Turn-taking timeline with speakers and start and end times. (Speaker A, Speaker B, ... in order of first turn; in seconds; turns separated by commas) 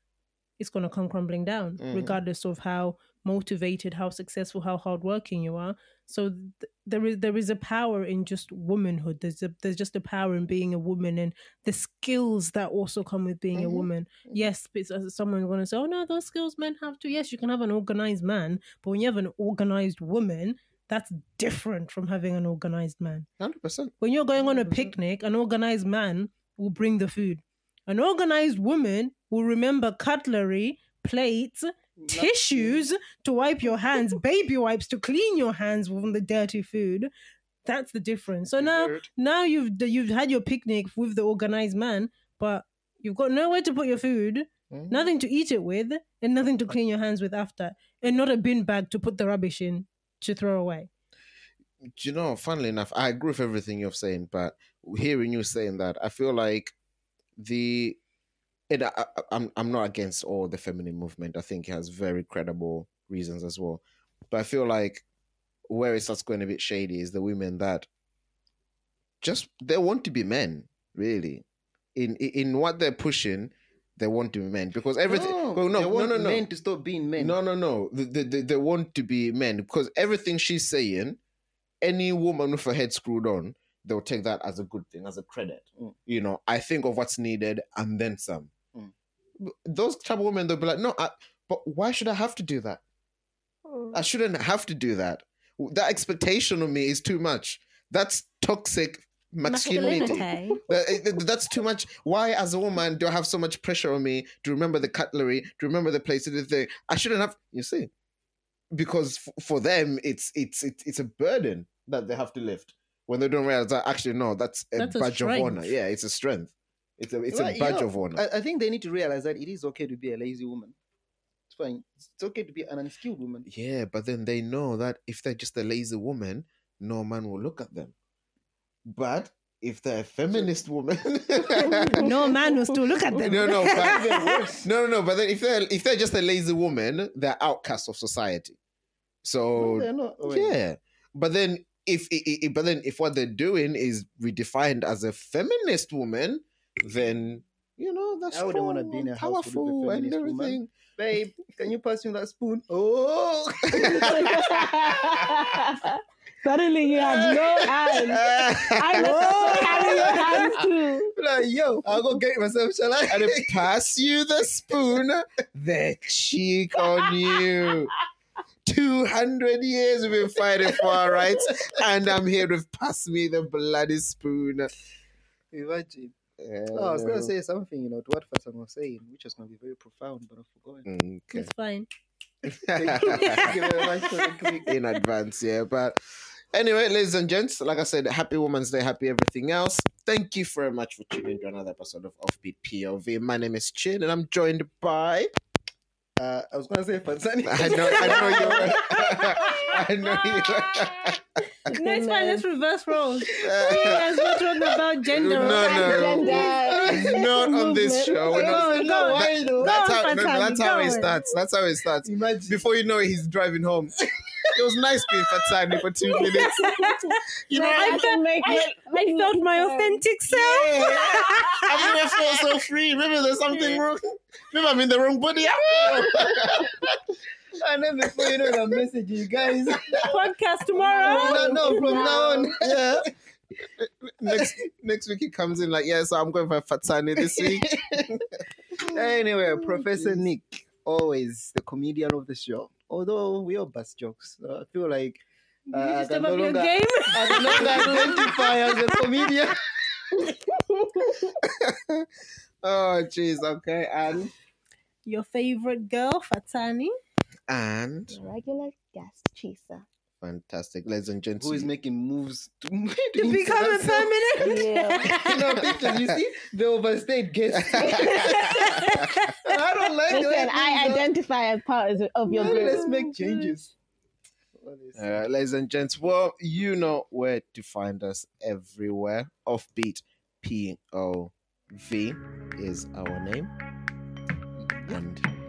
Speaker A: 0.6-23.3, Speaker B: 1.8-2.2, Speaker B: 13.6-14.4, Speaker B: 23.4-23.9, Speaker A: 24.0-37.1, Speaker C: 32.0-32.9, Speaker A: 37.6-50.9, Speaker C: 38.6-39.1, Speaker B: 44.7-45.1, Speaker B: 52.0-56.8, Speaker B: 57.4-58.0, Speaker B: 58.7-65.0, Speaker B: 65.7-67.9, Speaker B: 69.2-71.4, Speaker B: 72.0-76.4, Speaker C: 75.1-77.4, Speaker B: 77.2-81.2, Speaker B: 81.8-88.5, Speaker B: 89.4-92.8, Speaker D: 93.7-94.0, Speaker B: 93.9-107.9, Speaker A: 99.5-100.6, Speaker D: 99.8-100.1, Speaker B: 108.7-118.2, Speaker A: 114.8-115.7, Speaker C: 117.3-120.8, Speaker C: 121.5-123.5, Speaker B: 123.5-127.9, Speaker B: 128.9-132.1, Speaker D: 131.6-132.5, Speaker A: 131.9-134.4, Speaker B: 133.2-134.0, Speaker C: 133.6-134.7, Speaker B: 134.6-138.6, Speaker B: 139.2-150.7, Speaker C: 139.6-140.6, Speaker C: 148.3-154.7, Speaker D: 153.8-161.1, Speaker B: 153.8-154.6, Speaker C: 157.0-158.1, Speaker B: 158.1-159.8, Speaker A: 158.9-160.6, Speaker C: 159.7-160.6, Speaker C: 161.1-163.7, Speaker B: 163.1-167.9, Speaker B: 168.7-174.7, Speaker C: 170.8-171.5, Speaker C: 175.5-176.2, Speaker B: 176.4-177.3, Speaker C: 176.7-180.9, Speaker B: 180.9-181.5, Speaker A: 181.3-181.9, Speaker B: 182.4-183.8, Speaker C: 182.8-184.8, Speaker A: 183.2-184.1, Speaker B: 184.6-186.0, Speaker B: 186.5-195.3, Speaker C: 196.2-199.4, Speaker B: 197.4-201.2, Speaker A: 197.7-199.7, Speaker D: 201.7-202.5, Speaker A: 201.7-206.4, Speaker B: 203.4-213.9, Speaker C: 205.4-207.3, Speaker D: 205.7-208.3, Speaker C: 208.3-209.8, Speaker A: 208.3-211.1, Speaker C: 212.0-212.7, Speaker C: 214.2-214.5, Speaker B: 214.5-216.7, Speaker D: 216.2-220.1, Speaker A: 216.2-221.9, Speaker B: 217.5-218.6, Speaker C: 220.3-221.2, Speaker D: 220.8-221.7, Speaker B: 221.6-227.0, Speaker D: 223.5-223.8, Speaker C: 225.7-226.8, Speaker C: 227.6-230.1, Speaker B: 228.1-228.6, Speaker A: 229.9-232.5, Speaker D: 230.9-232.5, Speaker C: 231.0-233.1, Speaker B: 232.5-233.1, Speaker B: 233.8-238.2, Speaker C: 234.3-234.5, Speaker C: 237.2-238.2, Speaker C: 238.8-245.2, Speaker A: 245.7-249.0, Speaker C: 245.7-249.6, Speaker D: 250.2-251.4, Speaker B: 251.3-252.1, Speaker B: 252.6-254.3, Speaker A: 255.1-256.9, Speaker B: 257.5-258.2, Speaker D: 258.1-259.9, Speaker B: 260.2-261.7, Speaker C: 261.4-264.2, Speaker A: 263.2-265.6, Speaker D: 264.4-265.2, Speaker C: 265.1-268.9, Speaker B: 265.6-266.2, Speaker B: 267.5-269.1, Speaker A: 267.9-269.4, Speaker D: 268.0-268.5, Speaker C: 269.4-271.1, Speaker D: 270.1-273.1, Speaker C: 272.3-273.7, Speaker A: 272.4-273.5, Speaker C: 274.6-275.1, Speaker B: 275.0-283.6, Speaker C: 284.7-285.0, Speaker B: 284.9-285.3